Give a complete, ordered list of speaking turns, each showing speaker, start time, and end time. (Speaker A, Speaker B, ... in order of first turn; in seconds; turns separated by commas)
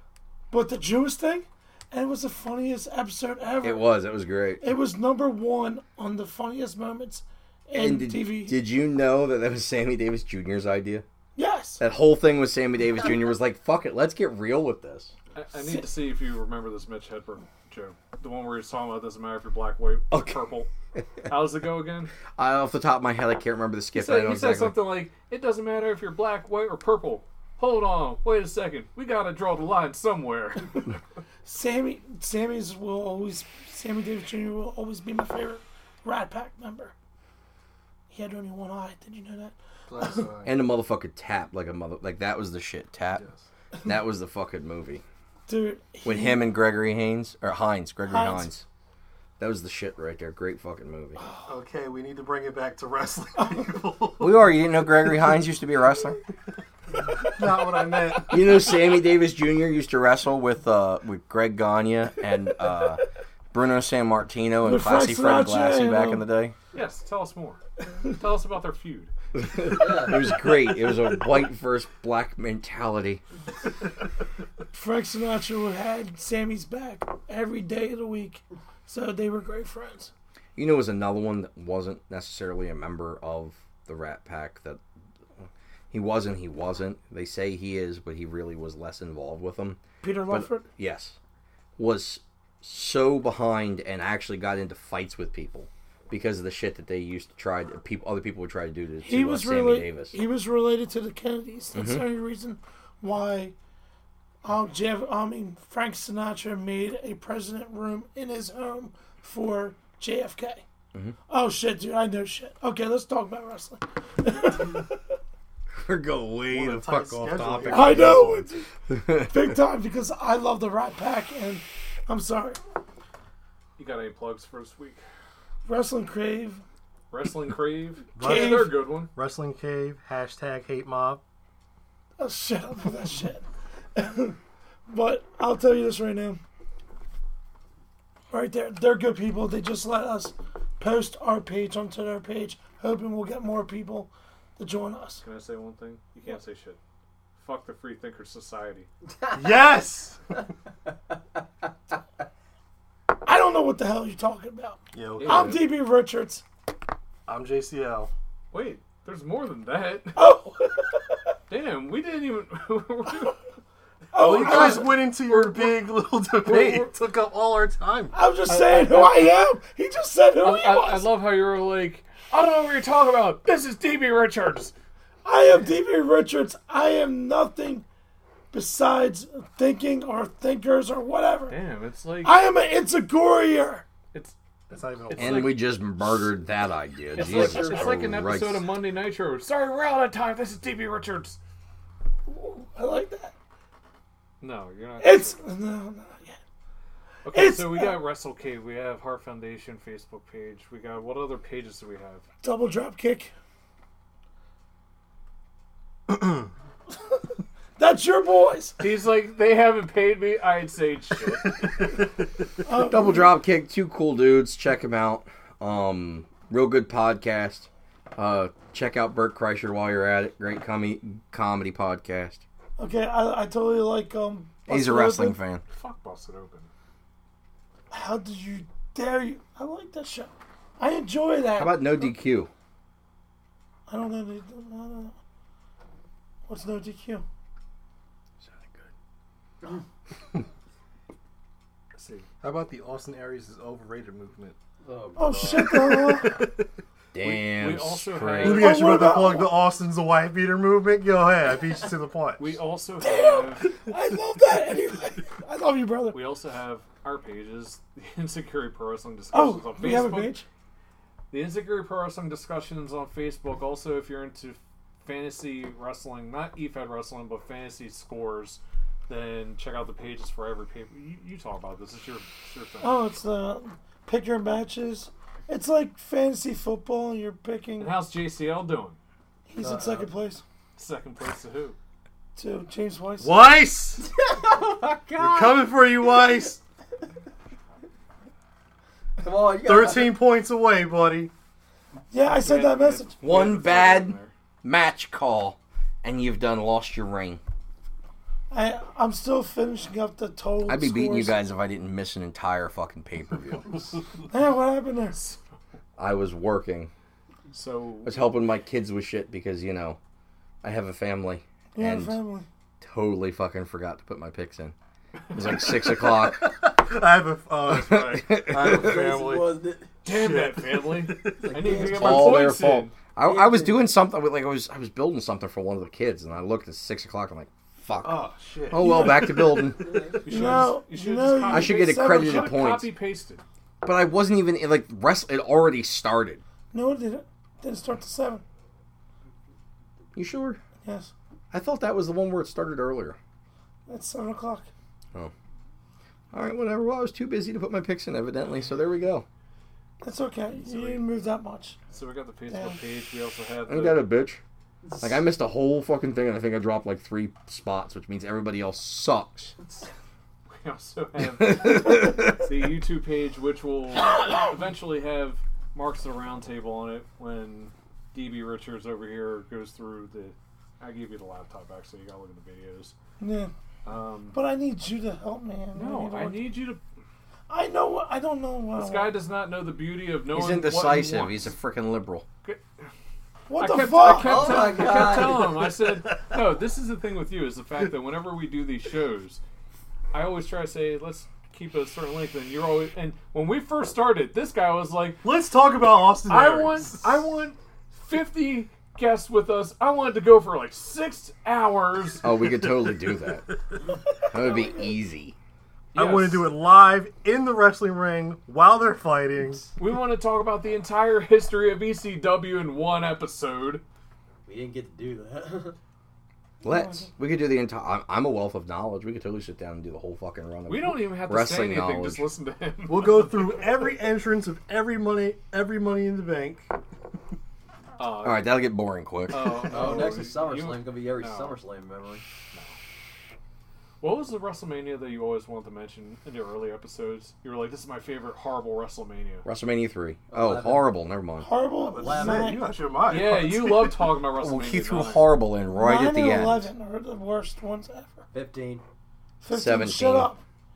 Speaker A: 0.5-3.9, Speaker B: 3.6-4.7, Speaker A: 4.6-8.6, Speaker B: 7.7-11.1, Speaker A: 11.4-11.8, Speaker B: 11.8-15.1, Speaker C: 15.3-20.7, Speaker A: 15.6-15.9, Speaker B: 20.1-20.4, Speaker C: 21.3-22.1, Speaker B: 22.3-24.8, Speaker C: 23.9-30.9, Speaker A: 31.4-36.9, Speaker A: 38.1-40.2, Speaker D: 39.9-40.5, Speaker B: 40.4-43.2, Speaker D: 43.1-43.5, Speaker B: 43.8-45.0, Speaker A: 45.5-46.4, Speaker B: 46.0-48.6, Speaker A: 48.1-48.5, Speaker B: 49.4-51.2, Speaker A: 51.2-51.5, Speaker D: 51.5-54.5, Speaker B: 54.2-56.2, Speaker D: 57.1-58.5, Speaker B: 58.3-66.5, Speaker A: 64.6-66.2, Speaker C: 66.7-69.1, Speaker B: 69.3-73.2, Speaker E: 69.8-70.1, Speaker A: 74.7-80.1, Speaker B: 80.5-84.8, Speaker B: 85.9-91.2, Speaker A: 90.0-90.7, Speaker B: 91.8-100.2, Speaker A: 99.0-103.5, Speaker B: 101.7-102.0, Speaker A: 104.4-110.6, Speaker A: 111.3-115.0, Speaker B: 115.8-119.5, Speaker D: 116.5-118.4, Speaker A: 117.7-122.6, Speaker C: 123.8-125.0, Speaker A: 125.7-126.6, Speaker C: 127.1-129.1, Speaker D: 128.2-131.2, Speaker A: 128.2-128.8, Speaker A: 132.2-136.4, Speaker A: 138.3-145.2, Speaker C: 145.2-146.8, Speaker C: 147.4-148.9, Speaker D: 149.3-150.2, Speaker A: 153.2-156.4, Speaker D: 154.9-155.7, Speaker C: 155.2-155.7, Speaker D: 157.3-158.1, Speaker C: 158.5-160.2, Speaker A: 160.1-161.1, Speaker C: 161.5-163.4, Speaker A: 164.1-165.1, Speaker D: 164.2-168.2, Speaker C: 164.2-167.0, Speaker A: 168.1-171.1, Speaker C: 168.5-169.0, Speaker C: 170.4-174.7, Speaker A: 175.2-177.8, Speaker A: 178.5-181.6, Speaker C: 181.5-182.3, Speaker A: 182.2-183.8, Speaker D: 184.7-185.6, Speaker C: 185.0-185.5, Speaker B: 185.2-188.7, Speaker C: 187.2-191.4, Speaker E: 187.2-188.0, Speaker A: 192.3-193.3, Speaker C: 194.4-195.4, Speaker A: 195.0-196.4, Speaker C: 197.2-202.2, Speaker A: 197.3-198.0, Speaker A: 202.4-203.3, Speaker A: 207.8-208.8, Speaker C: 208.8-211.9, Speaker D: 211.4-211.7, Speaker A: 212.6-213.3, Speaker B: 212.7-222.4, Speaker A: 222.8-225.4, Speaker B: 224.7-225.6, Speaker C: 225.7-226.7, Speaker A: 227.9-232.1, Speaker B: 231.6-232.5, Speaker A: 233.9-235.1, Speaker A: 236.5-237.2, Speaker B: 238.4-238.9, Speaker C: 241.9-242.3, Speaker D: 242.4-244.6, Speaker E: 244.8-245.8, Speaker A: 245.2-246.4, Speaker D: 245.5-246.6, Speaker B: 247.1-248.8, Speaker C: 247.2-248.8, Speaker D: 248.4-252.6, Speaker A: 248.5-249.6, Speaker C: 252.4-253.7, Speaker A: 253.0-256.2, Speaker C: 256.1-260.3, Speaker A: 259.3-260.4, Speaker C: 261.3-273.0, Speaker A: 272.8-278.0, Speaker C: 277.8-279.0, Speaker A: 279.5-280.4, Speaker E: 279.6-280.1, Speaker C: 280.8-281.8, Speaker A: 282.4-283.6, Speaker D: 283.2-284.1, Speaker E: 284.2-285.7, Speaker D: 285.1-286.6, Speaker E: 289.2-290.2, Speaker D: 289.6-291.3, Speaker A: 292.1-293.2, Speaker C: 292.2-294.3, Speaker B: 293.2-297.4, Speaker A: 298.5-301.4, Speaker B: 300.6-303.9, Speaker A: 304.3-305.2, Speaker C: 305.1-305.6, Speaker B: 306.0-306.9, Speaker C: 307.5-308.4, Speaker B: 308.1-310.0, Speaker B: 310.6-312.2, Speaker A: 311.7-312.4, Speaker B: 312.8-314.7, Speaker B: 315.4-316.5, Speaker D: 315.6-319.5, Speaker B: 317.7-319.0, Speaker E: 318.6-319.9, Speaker D: 320.1-321.8, Speaker C: 320.1-322.9, Speaker E: 321.4-322.5, Speaker B: 321.7-329.9, Speaker E: 323.2-323.8, Speaker D: 328.0-330.7, Speaker E: 329.9-330.2, Speaker C: 330.2-333.4, Speaker A: 330.2-332.6, Speaker B: 331.5-332.9, Speaker B: 333.8-336.4, Speaker A: 336.7-338.4, Speaker B: 340.1-340.6, Speaker A: 340.8-341.1, Speaker B: 341.5-343.2, Speaker A: 343.9-344.7, Speaker B: 346.3-349.3, Speaker A: 350.0-351.8, Speaker C: 351.9-354.1, Speaker A: 352.5-352.8, Speaker B: 353.7-354.4, Speaker E: 354.8-355.1, Speaker B: 355.0-359.6, Speaker C: 360.5-372.9, Speaker B: 361.2-362.4, Speaker A: 373.2-373.5, Speaker C: 373.9-374.4, Speaker A: 374.3-376.6, Speaker C: 375.7-376.8, Speaker A: 377.5-379.2, Speaker C: 378.7-381.5, Speaker B: 380.3-382.3, Speaker C: 382.4-382.9, Speaker A: 383.5-384.7, Speaker C: 383.6-389.4, Speaker E: 384.0-385.5, Speaker D: 384.7-386.4, Speaker C: 390.1-395.2, Speaker D: 395.2-397.2, Speaker C: 396.3-402.3, Speaker B: 402.2-403.4, Speaker D: 402.6-403.2, Speaker B: 404.3-405.4, Speaker C: 405.9-406.5, Speaker D: 405.9-409.7, Speaker C: 409.8-413.8, Speaker E: 414.4-415.8, Speaker A: 416.6-417.1, Speaker B: 416.6-422.3, Speaker C: 420.7-423.9, Speaker D: 422.9-426.7, Speaker C: 428.0-428.5, Speaker B: 428.2-430.0, Speaker C: 429.3-431.6, Speaker E: 429.7-432.2, Speaker C: 432.5-432.8, Speaker C: 434.0-439.5, Speaker B: 439.4-441.5, Speaker E: 440.3-440.9, Speaker A: 441.4-442.7, Speaker D: 441.8-444.1, Speaker E: 441.9-442.6, Speaker C: 443.1-445.3, Speaker B: 444.4-446.7, Speaker A: 445.7-448.2, Speaker E: 448.3-448.8, Speaker A: 449.4-450.4, Speaker B: 449.5-450.3